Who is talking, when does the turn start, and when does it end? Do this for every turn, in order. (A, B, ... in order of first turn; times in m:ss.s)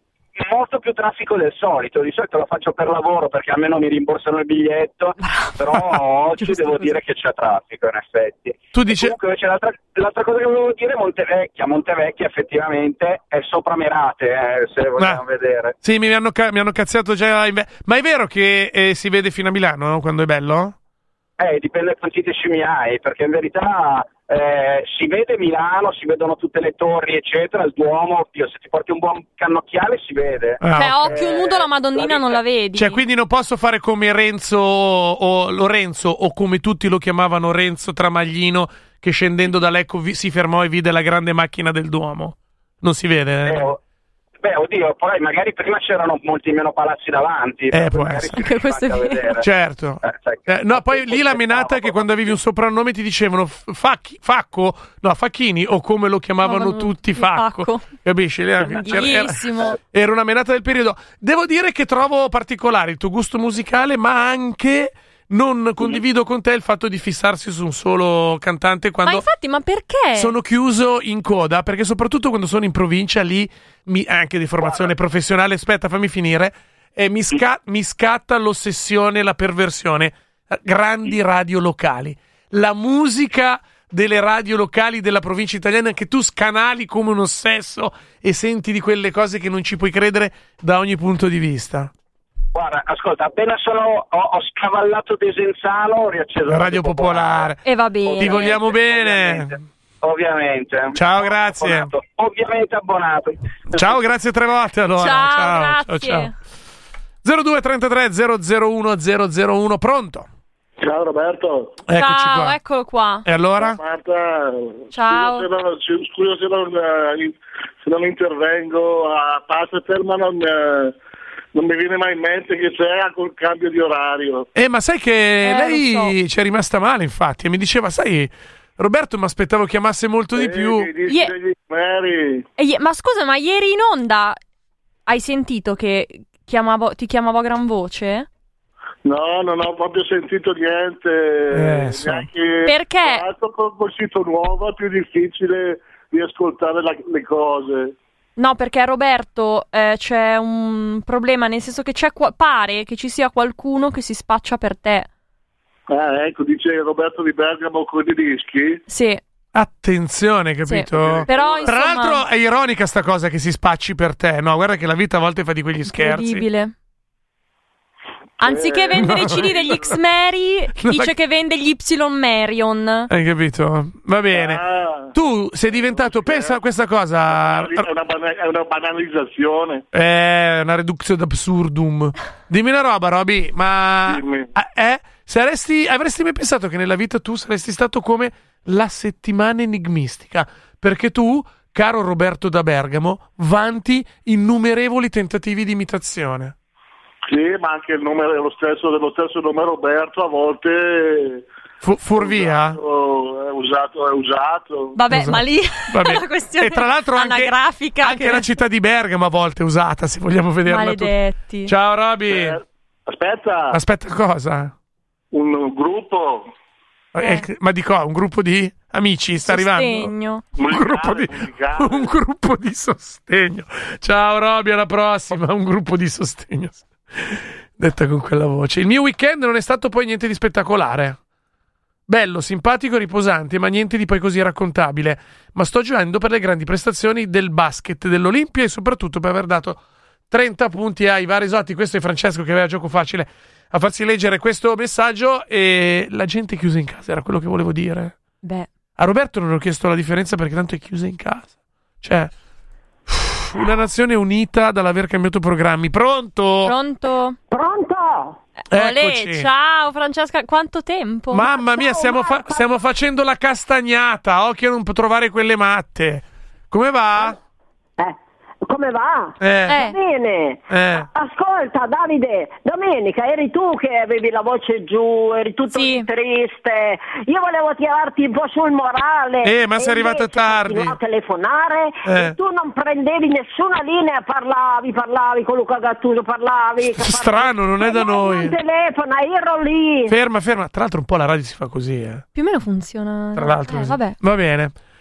0:00.4-0:15.7 A
0:05.2-0:05.6 B
0:06.4-0:06.9 B
0:08.7-0:09.1 C
0:15.8-0:20.8 C
0:21.4-0:32.4 A
0:30.6-0:31.2 C
0:30.7-0:33.0 B
0:32.7-0:43.7 C
0:43.4-0:43.8 A
0:44.4-0:49.4 A
0:47.7-0:48.4 C
0:48.3-0:49.4 B
0:49.4-1:09.2 C
0:50.0-0:52.3 A
0:56.4-0:57.9 B
0:58.6-0:59.8 B
1:09.0-1:10.3 B
1:10.1-1:31.9 C
1:14.6-1:14.9 A
1:32.5-1:44.0 A
1:36.4-1:37.6 C
1:37.6-1:38.6 B
1:38.2-1:39.6 C
1:40.9-1:41.9 C
1:43.7-1:46.3 C
1:45.0-1:46.3 B
1:47.2-1:50.2 C
1:50.8-1:51.8 D
1:51.9-1:52.6 C
1:51.9-1:53.2 B
1:53.2-1:53.8 C
1:53.6-2:01.0 D
1:54.9-1:55.5 B
2:01.5-2:04.5 D
2:04.5-2:10.9 C
2:05.4-2:06.1 B
2:10.3-2:12.4 D
2:11.1-2:11.3 B
2:12.6-2:14.4 B
2:15.1-2:18.3 B
2:19.0-2:27.9 D
2:21.5-2:22.3 C
2:22.6-2:23.2 B
2:28.4-2:35.1 B
2:35.9-2:38.8 D
2:38.9-2:39.2 B
2:39.5-2:46.5 C
2:40.7-2:42.2 B
2:40.9-2:41.8 D
2:45.8-2:46.7 B
2:48.4-2:53.1 B
2:48.4-2:49.6 D
2:49.0-2:49.9 C
2:50.8-2:51.1 C
2:53.1-2:54.6 C
2:54.3-2:55.1 D
2:55.1-2:57.9 C
2:55.7-2:56.6 D
2:57.3-2:59.8 D
2:59.9-3:16.5 C
3:04.0-3:04.5 D
3:17.3-3:21.4 D
3:21.8-3:22.8 C
3:22.1-3:25.0 D
3:24.9-3:28.4 B
3:25.1-3:31.1 C
3:30.7-3:31.7 B
3:31.6-3:32.6 C
3:32.3-3:33.8 D
3:33.7-3:34.7 C
3:35.3-3:36.5 D
3:37.1-3:40.1 C
3:37.2-3:37.4 B
3:39.4-3:40.4 B
3:40.5-3:42.1 D
3:40.7-3:51.2 C
3:52.1-4:08.2 C
4:08.4-4:08.7 B
4:09.0-4:12.3 C
4:13.1-4:16.7 C
4:16.6-4:17.4 B
4:17.5-4:18.4 E
4:18.6-4:21.5 B
4:18.7-4:19.5 C
4:21.3-4:27.4 C
4:21.6-4:22.6 E
4:28.0-4:50.1 E
4:29.4-4:29.8 C
4:29.7-4:30.0 B
4:30.7-4:31.1 C
4:35.7-4:36.1 B
4:39.4-4:41.0 C
4:42.0-4:42.3 C
4:46.8-4:48.6 C
4:50.1-4:52.2 C
4:52.3-4:54.2 B
4:53.4-4:54.7 C